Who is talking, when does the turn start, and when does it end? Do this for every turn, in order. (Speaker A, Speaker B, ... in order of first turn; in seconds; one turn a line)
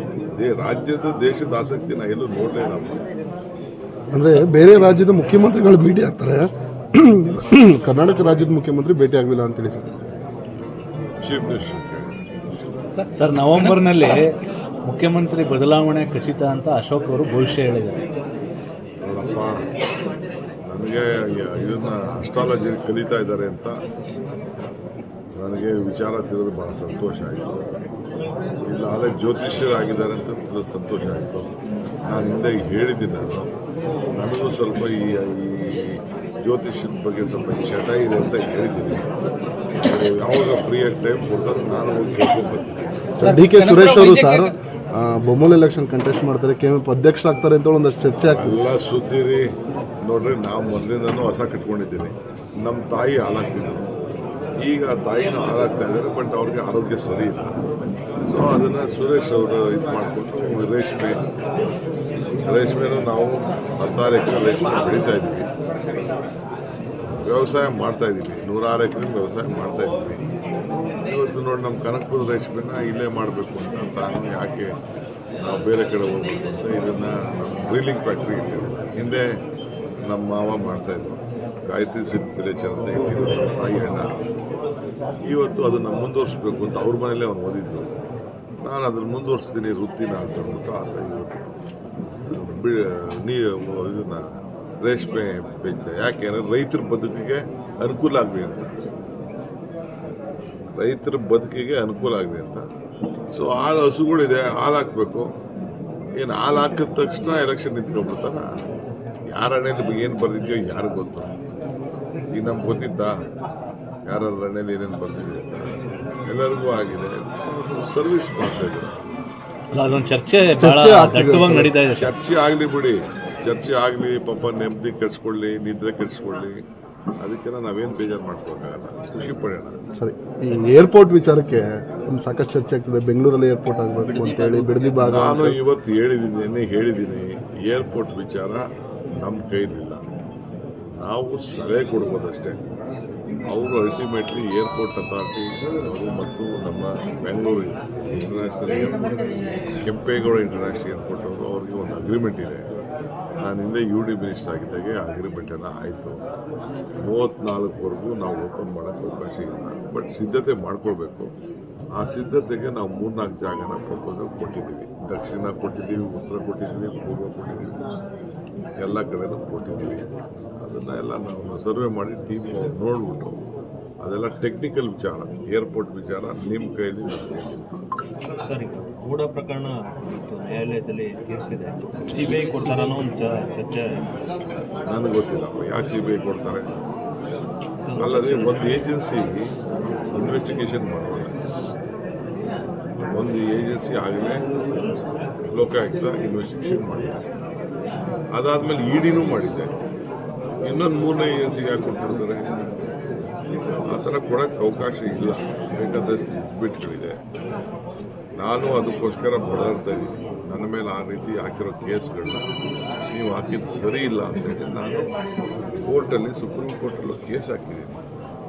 Speaker A: 0.3-3.0
Speaker B: 4.1-9.9
Speaker A: 11.2-12.1
Speaker C: 13.1-18.0
Speaker A: 19.0-19.6
Speaker A: 20.7-23.7
Speaker A: 25.3-27.5
Speaker A: 28.6-31.5
Speaker A: 32.1-33.5
Speaker A: 34.1-39.1
Speaker A: 39.8-42.9
Speaker D: 43.2-44.5
Speaker B: 43.2-48.6
Speaker A: 48.2-49.5
Speaker A: 50.0-53.9
Speaker A: 54.6-57.5
Speaker A: 58.2-61.2
Speaker A: 62.4-65.5
Speaker A: 67.2-70.2
Speaker A: 71.0-74.7
Speaker A: 75.4-79.2
Speaker A: 80.1-84.1
Speaker A: 85.3-87.9
Speaker A: 88.6-91.5
Speaker A: 92.3-94.3
Speaker A: 94.8-98.8
Speaker A: 100.7-102.6
Speaker A: 103.3-105.3
Speaker A: 106.2-108.5
Speaker A: 109.3-111.3
Speaker A: 112.3-113.1
Speaker A: 114.1-119.1
Speaker C: 119.7-122.1
Speaker B: 120.6-121.7
Speaker A: 121.9-126.6
Speaker A: 127.2-129.8
Speaker B: 129.9-135.6
Speaker D: 134.1-134.9
Speaker A: 135.0-138.6
Speaker A: 139.2-140.0
Speaker A: 141.0-142.6
Speaker A: 143.5-149.0
Speaker A: 149.8-152.7
Speaker A: 153.4-156.2
Speaker A: 157.0-161.3
Speaker A: 162.0-167.8
Speaker A: 168.8-170.1
Speaker A: 170.6-173.4
Speaker A: 174.0-177.6
Speaker D: 178.4-184.1
Speaker A: 184.9-186.7
Speaker D: 187.8-188.7
Speaker A: 188.0-189.4
Speaker A: 190.1-191.3
Speaker A: 193.1-194.4
Speaker A: 195.5-197.2
Speaker A: 198.3-199.7
Speaker A: 200.6-202.5
Speaker A: 203.9-207.2
Speaker A: 208.4-212.4
Speaker A: 213.1-215.1
Speaker A: 215.9-218.0